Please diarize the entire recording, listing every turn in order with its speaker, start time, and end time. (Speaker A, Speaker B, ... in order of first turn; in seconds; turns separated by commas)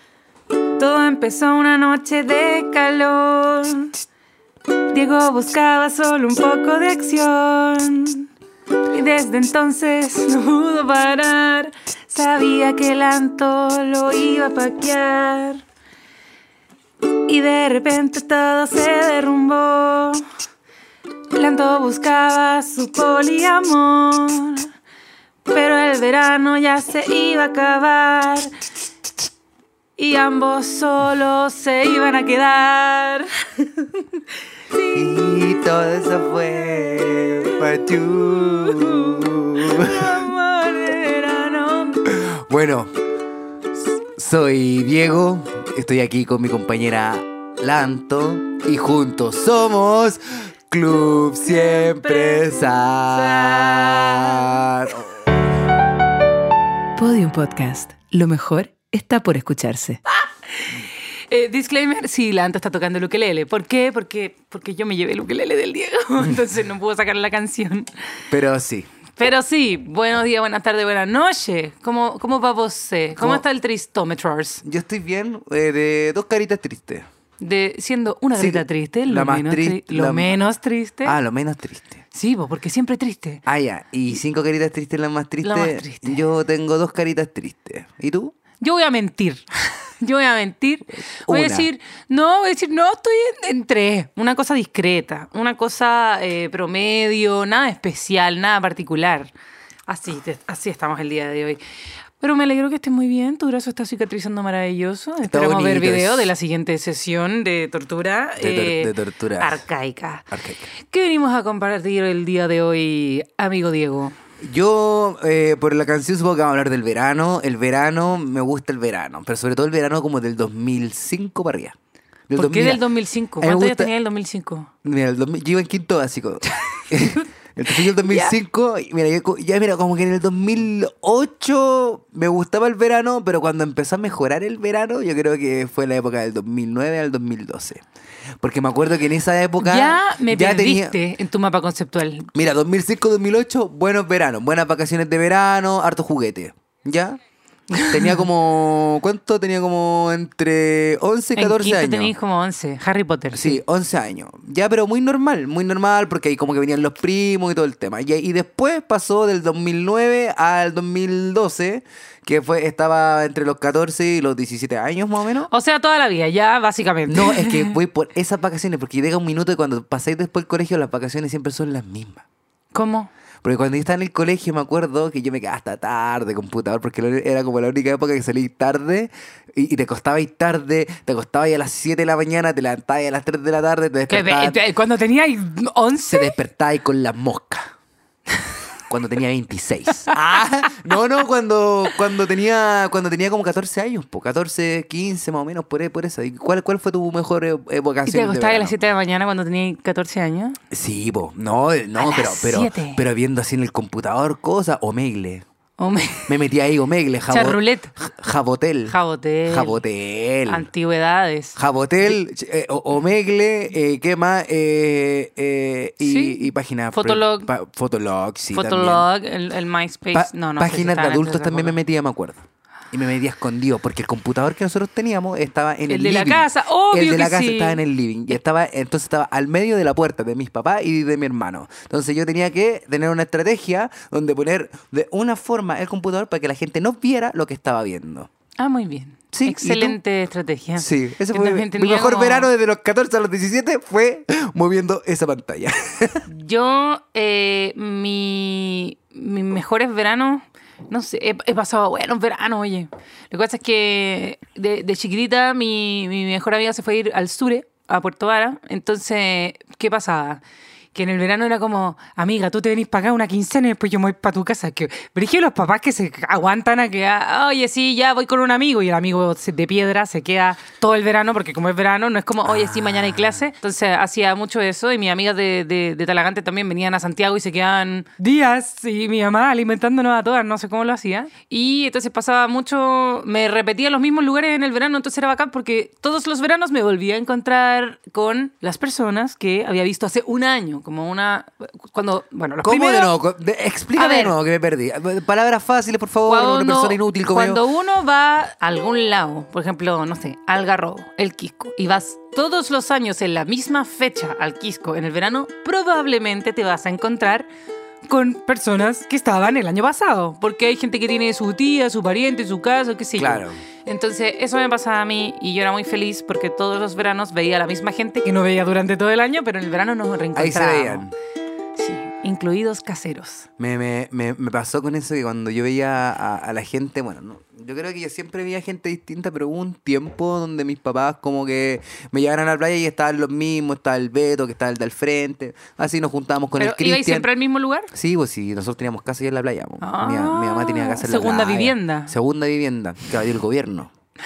Speaker A: 0.8-4.0, Speaker A: 4.9-8.3, Speaker A: 8.9-15.6, Speaker A: 17.3-20.2, Speaker A: 21.3-24.7, Speaker A: 25.5-28.5, Speaker A: 30.0-35.5, Speaker B: 34.9-40.3, Speaker A: 36.2-42.0, Speaker B: 42.1-42.9, Speaker B: 44.2-55.2, Speaker A: 51.5-54.6, Speaker C: 57.0-60.0, Speaker A: 60.1-60.8, Speaker A: 61.3-67.9, Speaker B: 68.3-68.9, Speaker A: 69.2-74.6, Speaker B: 73.2-73.4, Speaker B: 74.6-77.1, Speaker A: 77.4-81.2, Speaker B: 78.4-80.4, Speaker B: 81.0-82.0, Speaker A: 82.1-83.4, Speaker B: 83.5-88.3, Speaker A: 85.4-86.2, Speaker A: 88.6-99.3, Speaker B: 91.3-91.7, Speaker A: 99.9-101.6, Speaker A: 102.2-110.3, Speaker B: 105.2-106.3, Speaker B: 108.4-109.6, Speaker B: 110.3-110.7, Speaker A: 110.8-114.2, Speaker B: 114.4-121.8, Speaker B: 122.3-122.8, Speaker A: 122.3-124.7, Speaker B: 123.4-123.9, Speaker B: 124.8-137.8, Speaker A: 127.8-128.3, Speaker B: 138.4-141.0, Speaker A: 139.6-142.3, Speaker B: 142.3-147.2, Speaker A: 147.7-148.3, Speaker B: 147.8-152.1, Speaker A: 151.4-153.6, Speaker B: 153.3-165.5, Speaker A: 165.5-167.7, Speaker B: 167.1-172.2, Speaker A: 172.7-173.1, Speaker B: 173.4-184.6, Speaker A: 184.1-186.3, Speaker B: 186.1-187.7, Speaker B: 188.9-198.8, Speaker A: 198.1-200.6, Speaker B: 200.7-205.4, Speaker A: 202.0-203.0, Speaker A: 205.8-206.3, Speaker B: 206.3-209.0, Speaker A: 207.3-207.9, Speaker A: 208.9-209.8, Speaker B: 209.5-210.7, Speaker A: 210.5-211.6, Speaker B: 211.6-219.1, Speaker A: 216.0-217.5, Speaker A: 218.5-221.8, Speaker B: 220.1-238.3, Speaker A: 225.9-227.8, Speaker A: 238.6-242.5, Speaker B: 239.3-240.0, Speaker B: 240.8-246.2, Speaker A: 246.3-260.4, Speaker A: 260.9-293.1, Speaker B: 272.5-273.4, Speaker B: 292.6-297.6, Speaker A: 293.9-294.3, Speaker A: 296.2-307.5, Speaker A: 308.0-321.1, Speaker B: 313.2-313.6, Speaker B: 320.4-321.1, Speaker A: 321.8-323.5, Speaker B: 323.6-337.3, Speaker A: 336.6-337.9, Speaker B: 337.9-343.9, Speaker A: 339.8-342.1